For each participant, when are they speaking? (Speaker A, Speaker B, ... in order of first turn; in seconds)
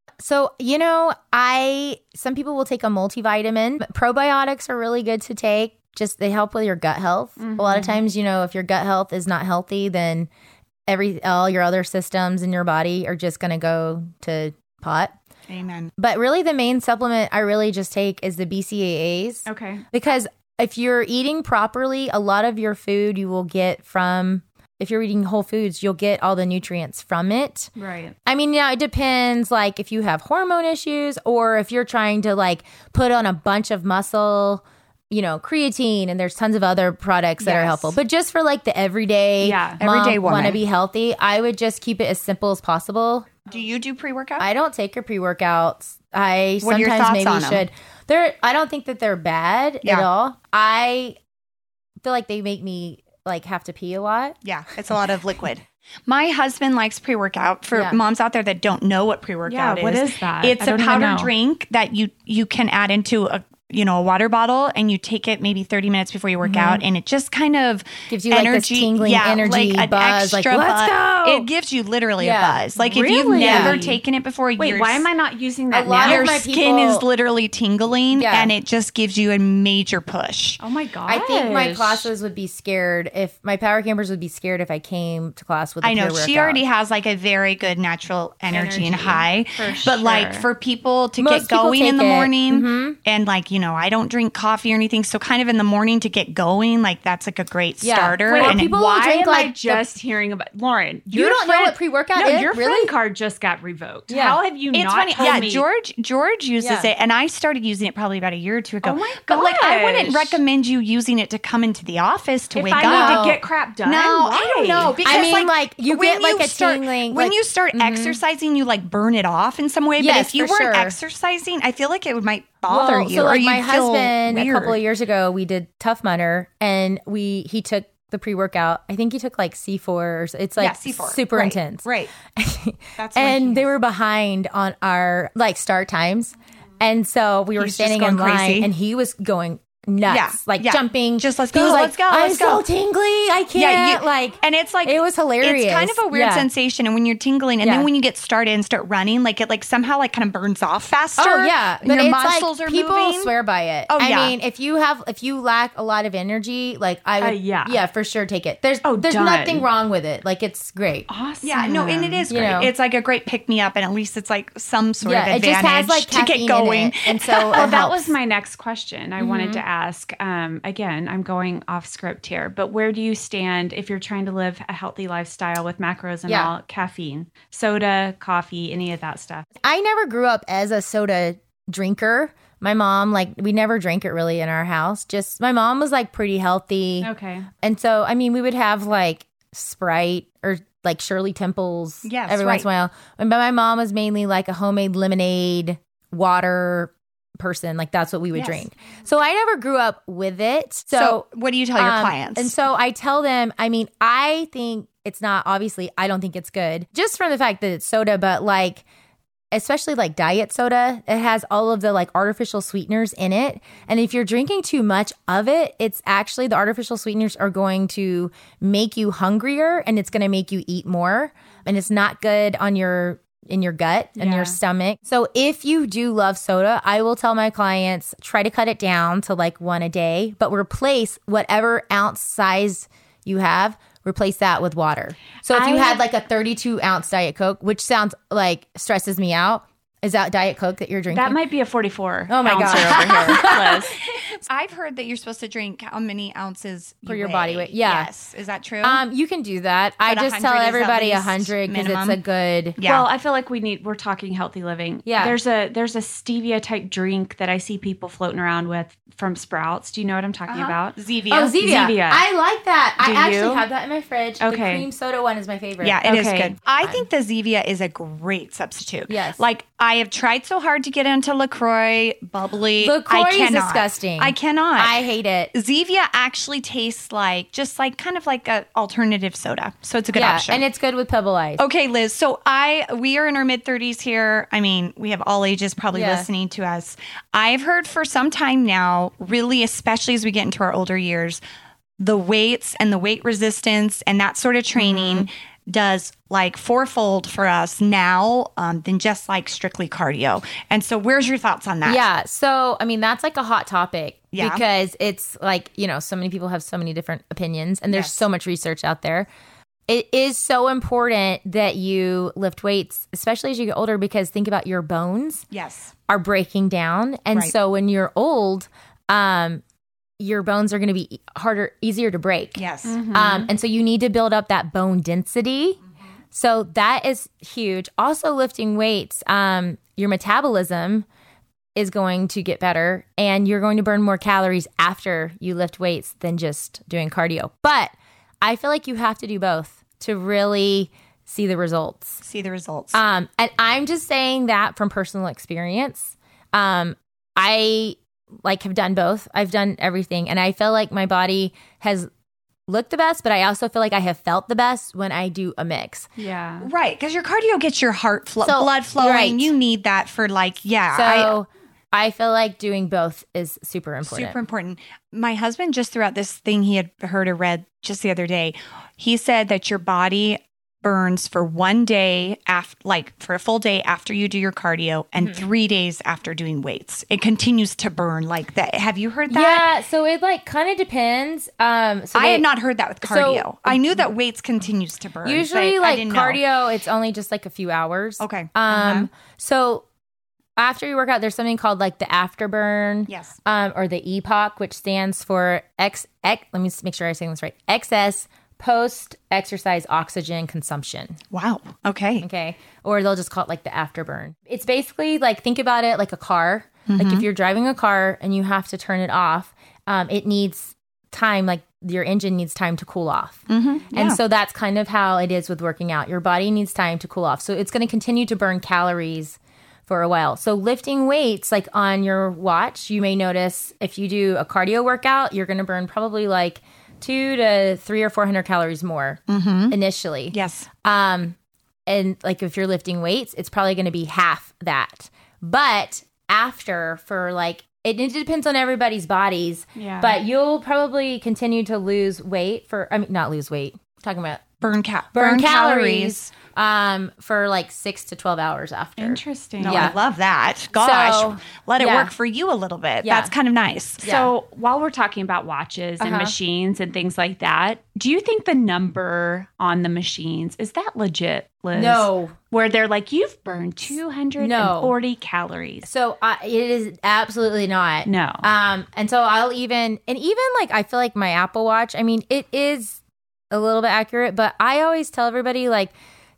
Speaker A: 0.2-10.3, 10.9-15.2, 16.0-27.7, 28.3-43.3, 44.4-51.2, 52.0-54.4, 57.7-58.0, 66.5-66.8, 68.1-71.1, 72.2-72.6, 73.4-73.8, 75.7-77.1, 78.1-78.5, 81.1-86.6, 89.6-90.0, 91.2-93.0, 97.8-99.8, 101.1-102.9, 104.1-104.4, 106.6-106.9, 112.8-113.4, 115.0-118.2, 120.0-121.0, 122.7-146.5, 147.6-147.9, 151.2-161.1, 162.3-162.7, 165.0-168.1, 169.2-169.6, 176.3-176.5, 179.6-187.1, 187.6-201.2, 201.8-208.8, 209.5-241.4, 242.3-243.8, 247.1-248.1, 248.8-252.8, 255.1-255.4, 261.3-266.0, 269.1-269.4, 272.8-275.5, 280.1-281.6, 285.9-286.3, 294.8-295.3, 301.9-309.3, 309.9-315.4, 316.1-319.6, 320.2-325.8, 326.3-331.1, 331.8-342.2, 342.9-352.1, 352.7-356.1, 358.4-359.5, 360.9-364.4, 379.3-382.4, 383.0-384.1, 385.2-389.9, 390.6-401.2, 402.2-429.2, 429.7-431.4, 431.9-444.4, 445.1-450.0, 450.8-452.1, 453.0-453.3, 454.0-454.3, 456.0-456.4, 461.7-462.4, 464.4-464.9, 465.9-475.9
Speaker B: 7.4-8.0, 19.5-19.8, 27.8-28.1, 37.4-37.8, 39.4-39.8, 59.5-61.3, 70.9-71.5, 72.8-74.0, 74.6-76.4, 80.6-82.1, 88.5-90.5, 98.3-105.6, 108.8-110.4, 112.5-115.3, 157.2-157.8, 158.8-159.7, 161.1-162.3, 167.5-179.5, 187.0-187.5, 224.2-224.6, 235.5-236.0, 241.1-244.0, 252.8-261.0, 261.6-262.2, 263.0-263.7, 264.4-264.9, 266.1-267.0, 322.9-323.5, 356.2-356.7, 439.8-440.2, 449.0-449.9, 454.0-465.9, 468.1-468.5
Speaker C: 15.5-15.9, 37.5-37.7, 39.8-40.6, 43.5-44.5, 46.6-47.6, 54.4-75.1, 76.0-80.6, 85.8-98.7, 104.7-124.8, 130.6-132.1, 133.0-133.7, 137.6-138.7, 140.1-142.7, 143.6-153.3, 153.9-154.3, 161.4-167.8, 192.1-192.7, 198.3-198.6, 200.9-202.5, 242.5-243.7, 244.4-249.0, 250.1-252.2, 252.8-253.1, 260.5-261.9, 265.8-275.0, 275.5-280.6, 281.6-291.4, 292.0-302.0, 304.3-304.6, 307.9-308.2, 315.5-315.9, 322.6-323.0, 342.2-343.0, 356.6-361.3, 364.0-379.7, 382.1-386.4, 388.2-389.1, 393.1-393.4, 401.3-402.3, 406.9-407.3, 413.5-414.2, 429.3-429.8, 430.3-430.7, 444.6-446.2, 449.6-454.1